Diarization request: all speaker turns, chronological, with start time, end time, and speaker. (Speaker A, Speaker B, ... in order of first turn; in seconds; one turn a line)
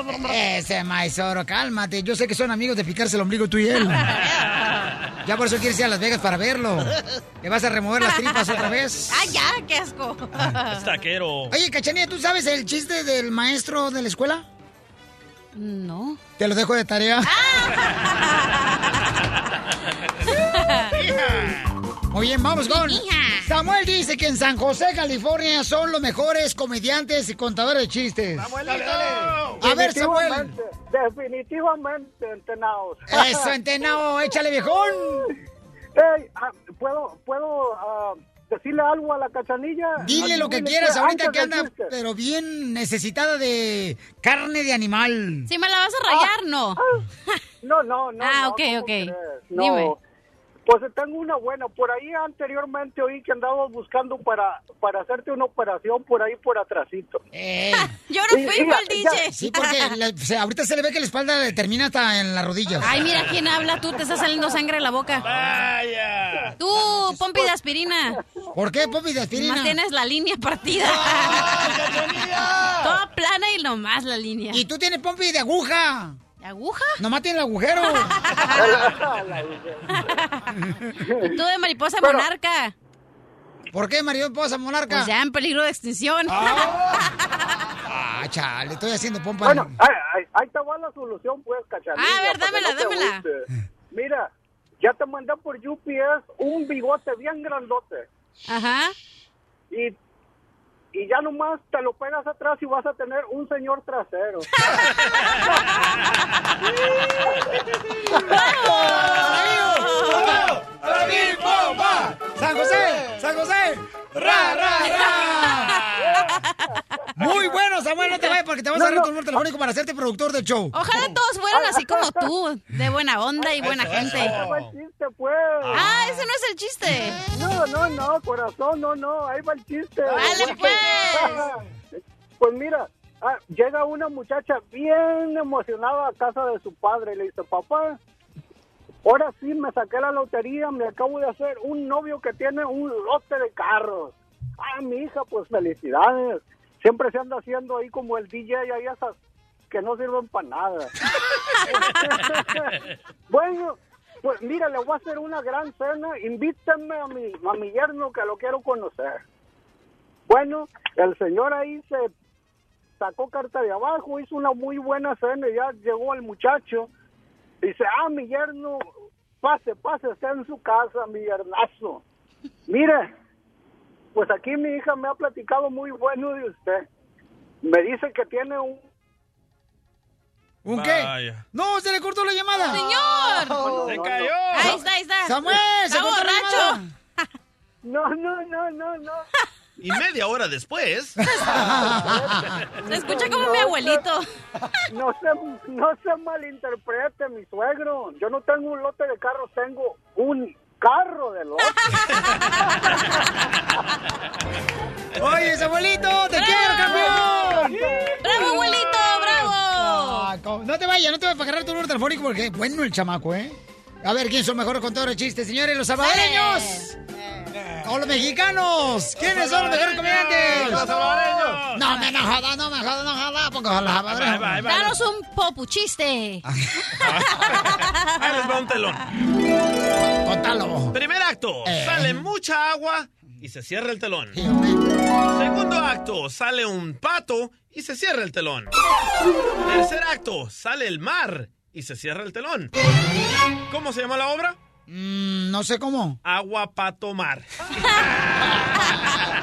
Speaker A: 0.1-4.1
Speaker B: 3.8-4.8
Speaker C: 4.2-5.1
Speaker A: 5.2-9.3
Speaker B: 8.0-11.1
Speaker C: 10.7-11.6
Speaker A: 11.5-14.4
Speaker B: 15.6-16.2
Speaker A: 16.4-17.3
Speaker B: 17.2-19.3
Speaker B: 20.2-21.0
Speaker C: 20.9-21.7
Speaker A: 22.1-28.6
Speaker B: 22.6-23.5
Speaker C: 28.4-29.6
Speaker A: 29.6-30.5
Speaker D: 29.6-33.5
Speaker A: 33.1-35.2
Speaker D: 34.6-35.3
Speaker D: 36.0-41.9
Speaker A: 40.0-45.5
Speaker B: 45.5-47.4
Speaker D: 47.6-50.0
Speaker B: 48.2-49.9
Speaker D: 50.7-57.2
Speaker A: 57.3-57.9
Speaker B: 57.7-60.0
Speaker D: 58.3-59.2
Speaker A: 59.3-63.0
Speaker B: 62.8-65.3
Speaker D: 64.0-64.5
Speaker C: 65.2-66.6
Speaker B: 66.6-68.2
Speaker D: 68.1-68.4
Speaker A: 68.5-69.8
Speaker B: 69.3-71.9
Speaker B: 72.8-74.7
Speaker A: 74.5-76.2
Speaker B: 76.4-77.0
Speaker A: 77.0-78.2
Speaker B: 77.8-78.9
Speaker D: 78.5-80.2
Speaker B: 79.9-80.5
Speaker D: 81.0-81.4
Speaker B: 81.2-82.7
Speaker A: 83.7-85.1
Speaker B: 84.9-87.5
Speaker A: 86.3-86.7
Speaker A: 87.9-89.7
Speaker D: 89.4-94.3
Speaker B: 92.0-93.2
Speaker D: 94.8-98.1
Speaker B: 98.5-99.0
Speaker D: 100.9-104.5
Speaker D: 106.8-108.4
Speaker B: 108.2-110.6
Speaker A: 109.0-115.8
Speaker C: 114.2-114.5
Speaker D: 114.3-115.0
Speaker B: 115.3-115.8
Speaker D: 115.8-117.6
Speaker B: 116.3-116.6
Speaker A: 117.2-120.8
Speaker D: 118.7-119.1
Speaker B: 120.7-124.4
Speaker D: 121.5-122.3
Speaker D: 123.4-125.8
Speaker C: 123.6-124.7
Speaker C: 125.7-126.0
Speaker B: 125.7-127.2
Speaker D: 127.3-131.7
Speaker B: 130.1-131.5
Speaker D: 132.4-138.0
Speaker D: 139.1-149.2
Speaker D: 149.7-150.9
Speaker D: 151.7-152.7
Speaker D: 153.3-159.2
Speaker D: 160.3-162.1
Speaker D: 163.0-166.9
Speaker D: 167.6-168.9
Speaker D: 169.4-172.0
Speaker D: 172.7-173.1
Speaker D: 174.2-176.8
Speaker D: 177.6-178.9
Speaker A: 180.7-182.8
Speaker C: 180.7-181.4
Speaker B: 182.6-187.2
Speaker D: 183.4-184.4
Speaker C: 183.8-184.8
Speaker A: 184.7-186.9
Speaker D: 187.8-189.3
Speaker C: 189.8-191.2
Speaker A: 191.3-192.6
Speaker D: 191.3-194.0
Speaker B: 192.9-194.3
Speaker D: 194.9-202.0
Speaker B: 201.9-203.0
Speaker D: 202.6-203.5
Speaker A: 205.2-207.7
Speaker B: 206.3-207.7
Speaker D: 207.0-208.5
Speaker B: 208.2-210.3
Speaker A: 209.8-216.9
Speaker B: 216.0-217.0
Speaker A: 217.8-220.9
Speaker C: 219.2-222.0
Speaker A: 221.7-224.6
Speaker C: 224.1-225.0
Speaker B: 224.6-226.4
Speaker C: 227.0-229.1
Speaker B: 227.7-228.4
Speaker A: 230.1-231.0
Speaker C: 230.9-234.4
Speaker A: 231.7-232.2
Speaker A: 234.3-234.8
Speaker C: 235.3-238.7
Speaker C: 239.6-242.7
Speaker C: 243.7-244.6
Speaker A: 244.9-246.2
Speaker C: 246.2-247.5